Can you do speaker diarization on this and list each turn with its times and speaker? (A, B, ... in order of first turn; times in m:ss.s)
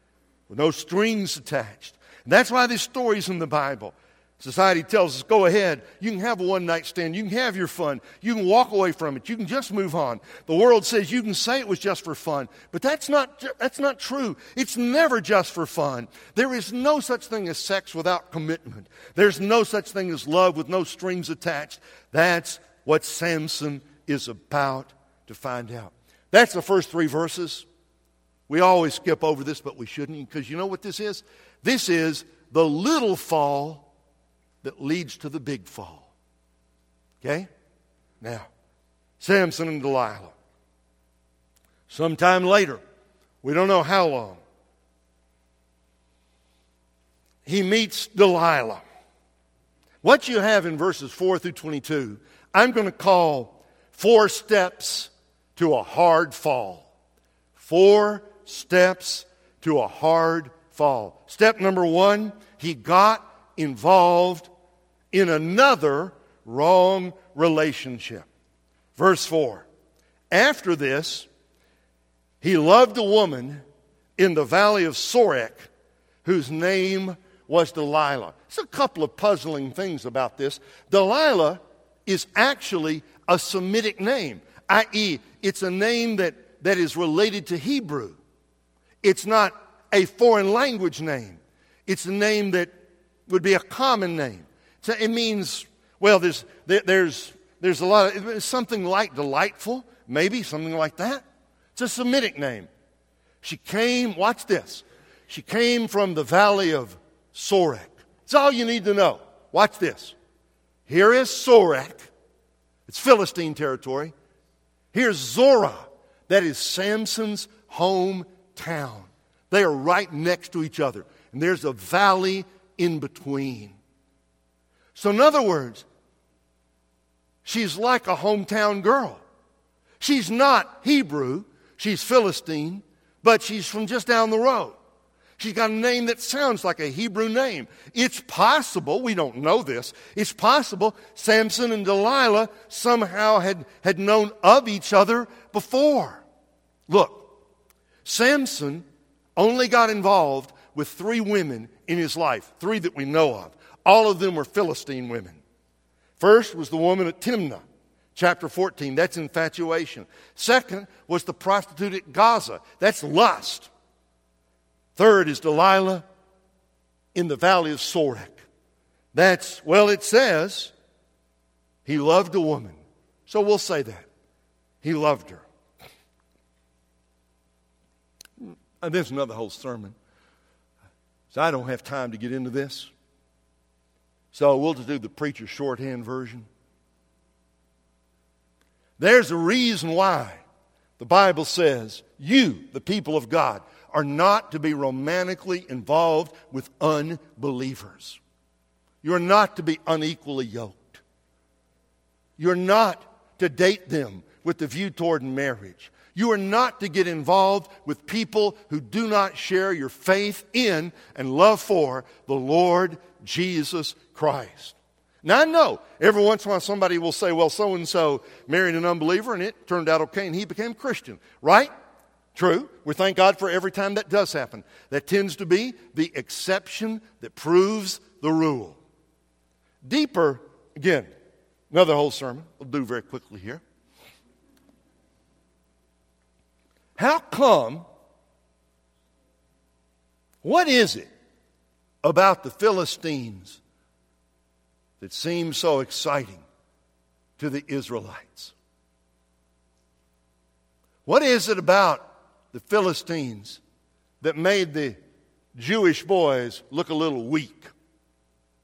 0:00.5-0:27.6 A
0:28.5-0:33.9 A
0:34.6-0:36.1 A
0:37.2-0:37.5 A
0:38.2-0:38.5 A
0:39.2-0:40.3 A
0:41.9-0:42.8 A
0:43.4-0:44.4 A
0:47.4-0:48.8 A
0:50.0-0:56.9 A
0:57.6-1:04.5 A
1:05.1-1:08.3 A
1:09.0-1:09.6 A
1:10.3-1:11.3 A
1:12.4-1:13.6 A
1:14.2-1:15.7 A
1:16.2-1:28.2 A
1:29.0-1:32.7 A
1:33.3-1:41.2 A
1:41.7-1:42.7 A
1:43.4-1:50.1 A
1:50.9-1:52.1 A
1:52.9-1:54.1 A
1:54.9-2:03.8 A
2:04.9-2:05.8 A
2:07.4-2:09.2 A
2:10.0-2:14.8 A
2:15.4-2:26.2 A
2:26.9-2:27.3 A
2:28.0-2:28.8 A
2:29.4-2:35.4 A
2:36.2-2:37.6 A
2:38.1-2:43.7 A
2:45.0-2:46.0 A
2:47.1-2:48.4 A
2:49.1-2:50.7 A
2:51.8-2:54.1 A
2:54.8-2:55.4 A
2:58.4-2:59.9 A
3:01.3-3:02.9 A
3:04.3-3:06.4 A
3:09.0-3:10.4 A
3:11.0-3:18.2 A
3:19.0-3:21.0 A
3:22.4-3:41.7 A
3:42.3-3:48.8 A
3:49.8-3:51.1 A
3:51.7-3:53.6 A
3:57.0-3:57.8 A
4:00.4-4:01.1 A
4:02.0-4:03.6 A
4:05.0-4:06.4 A
4:07.4-4:08.5 A
4:11.0-4:13.6 A
4:14.2-4:15.0 A
4:15.5-4:17.7 A